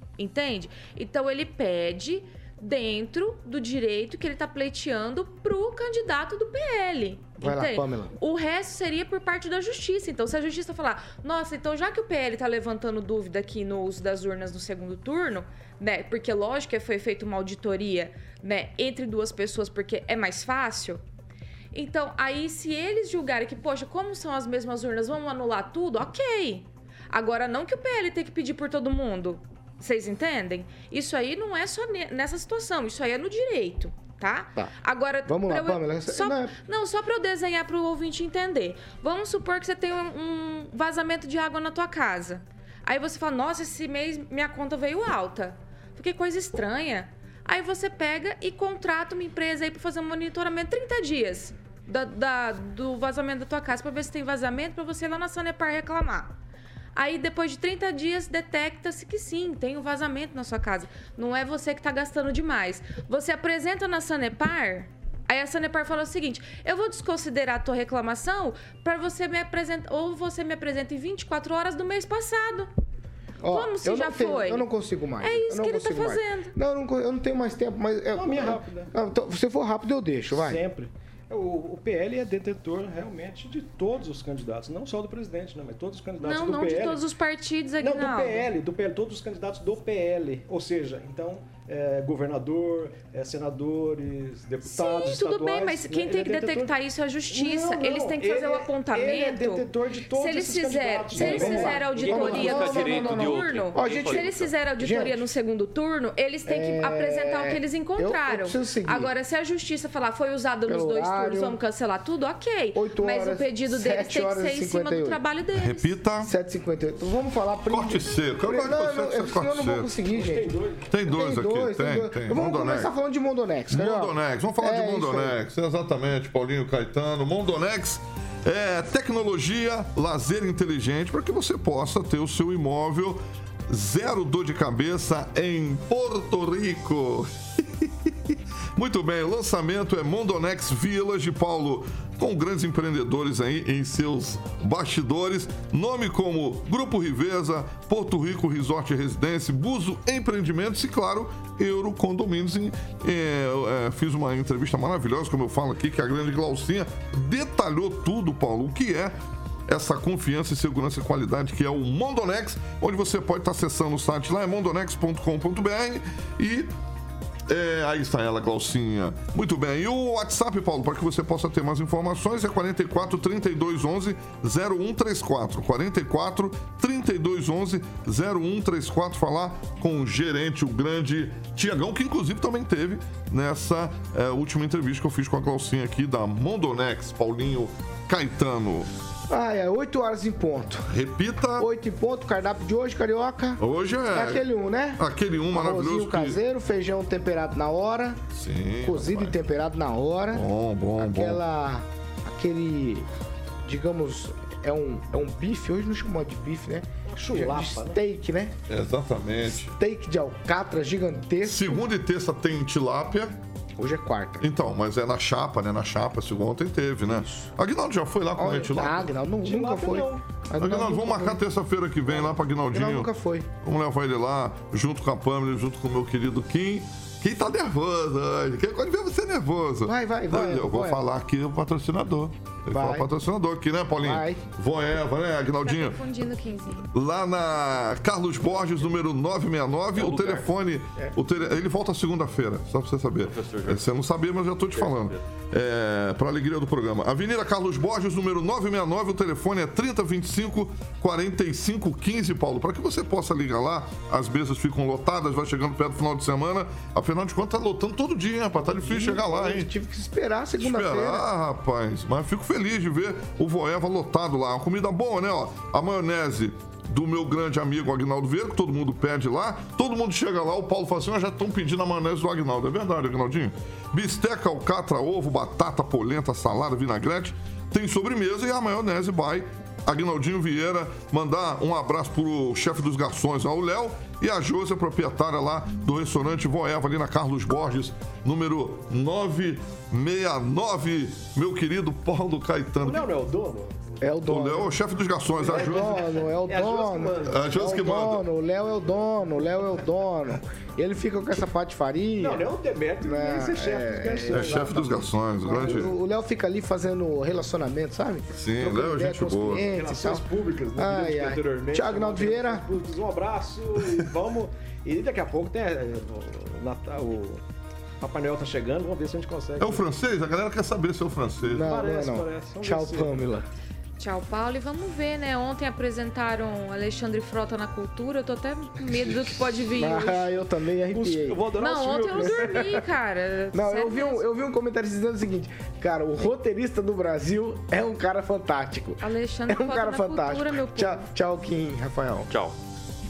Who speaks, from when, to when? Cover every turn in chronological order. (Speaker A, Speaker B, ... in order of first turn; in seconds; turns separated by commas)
Speaker A: 0.2-21.0, Speaker B: 7.4-8.1, Speaker A: 21.7-56.3, Speaker B: 35.3-36.5, Speaker A: 57.0-72.7, Speaker B: 73.4-80.6, Speaker A: 73.5-74.7, Speaker A: 75.2-76.5, Speaker C: 78.1-78.9, Speaker C: 80.3-87.1, Speaker A: 86.2-88.5, Speaker C: 87.8-96.7, Speaker A: 94.6-116.0, Speaker C: 97.3-102.9, Speaker B: 101.1-105.3, Speaker D: 102.0-104.5, Speaker B: 106.5-109.1, Speaker B: 110.7-111.6, Speaker B: 112.7-115.2, Speaker E: 115.5-116.3, Speaker B: 116.2-120.5, Speaker E: 117.7-119.9, Speaker C: 120.1-120.9, Speaker E: 120.9-122.9, Speaker B: 121.1-125.4, Speaker E: 123.7-137.3, Speaker E: 137.8-138.1, Speaker E: 138.8-159.1, Speaker E: 159.7-166.7, Speaker E: 167.5-188.9, Speaker B: 189.3-190.9, Speaker E: 190.9-191.7, Speaker B: 191.6-193.6, Speaker E: 193.6-194.4, Speaker B: 194.1-198.2, Speaker E: 195.0-196.4, Speaker E: 198.3-199.3, Speaker B: 198.8-200.5, Speaker E: 200.3-201.4, Speaker B: 201.0-203.1, Speaker B: 203.7-208.6, Speaker C: 207.1-208.0, Speaker E: 208.7-209.8, Speaker B: 209.7-211.8, Speaker E: 211.5-213.3, Speaker B: 213.8-214.5, Speaker E: 214.4-219.1, Speaker B: 217.1-217.5, Speaker B: 218.4-221.4, Speaker C: 219.4-220.2, Speaker E: 220.6-223.1, Speaker B: 222.1-223.5, Speaker E: 223.6-236.0, Speaker B: 229.9-231.0, Speaker B: 232.7-233.1, Speaker B: 234.0-234.4, Speaker A: 235.6-236.9, Speaker E: 236.9-259.7, Speaker D: 240.0-240.5, Speaker D: 243.2-243.8, Speaker D: 244.7-245.2, Speaker B: 258.6-261.2, Speaker E: 260.6-293.1, Speaker C: 292.8-293.8, Speaker B: 294.0-294.7, Speaker E: 294.2-296.0, Speaker C: 295.4-297.9, Speaker B: 295.4-302.5, Speaker E: 297.3-298.2, Speaker C: 302.2-305.9, Speaker B: 303.0-312.7, Speaker E: 304.3-305.9, Speaker E: 308.4-309.7, Speaker C: 309.6-317.4, Speaker C: 318.0-319.9, Speaker E: 319.6-321.8, Speaker B: 321.5-323.5, Speaker C: 321.5-323.2, Speaker A: 324.0-330.3, Speaker B: 329.7-331.5, Speaker C: 330.9-332.9, Speaker A: 331.6-334.2, Speaker B: 332.2-332.6, Speaker B: 333.5-342.3, Speaker A: 339.0-341.1, Speaker D: 342.3-342.6